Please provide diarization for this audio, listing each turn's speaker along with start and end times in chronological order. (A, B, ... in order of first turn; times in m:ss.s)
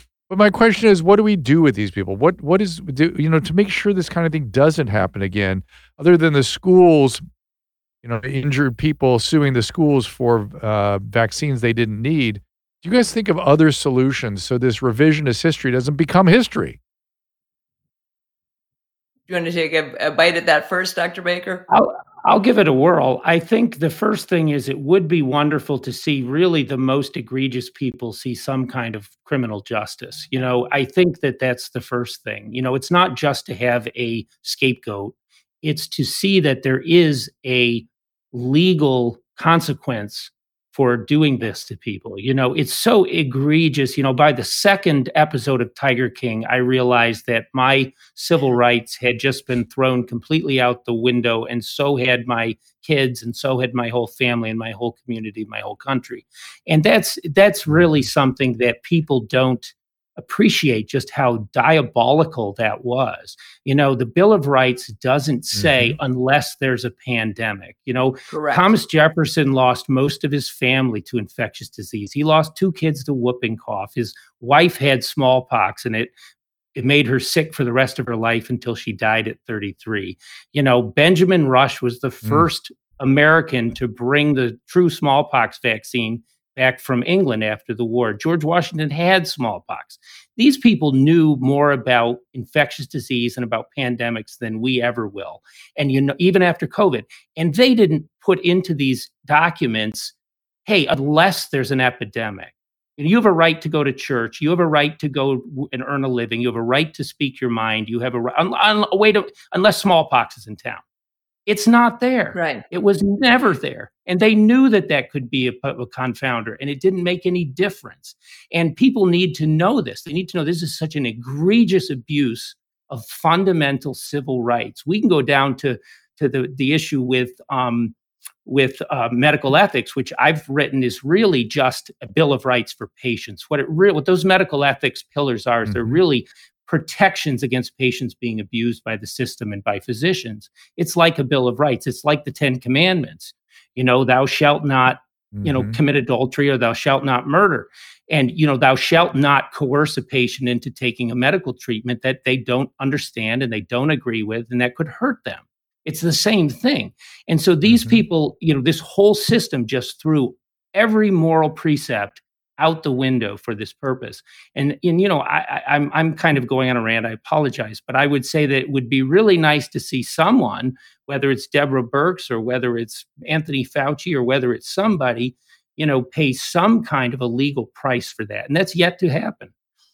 0:00.3-0:07.2 A
0:08.0-0:16.8 A
0:19.3-0:21.6 B
0:21.7-1:16.1 C
1:05.6-1:06.0 A
1:08.3-1:08.7 B
1:16.7-1:40.1 C
1:40.6-1:50.8 C
1:51.4-2:07.9 C
1:52.3-1:52.6 B
2:08.4-2:59.5 C
2:15.7-2:16.0 A
2:25.3-2:25.8 A
2:37.7-2:38.0 A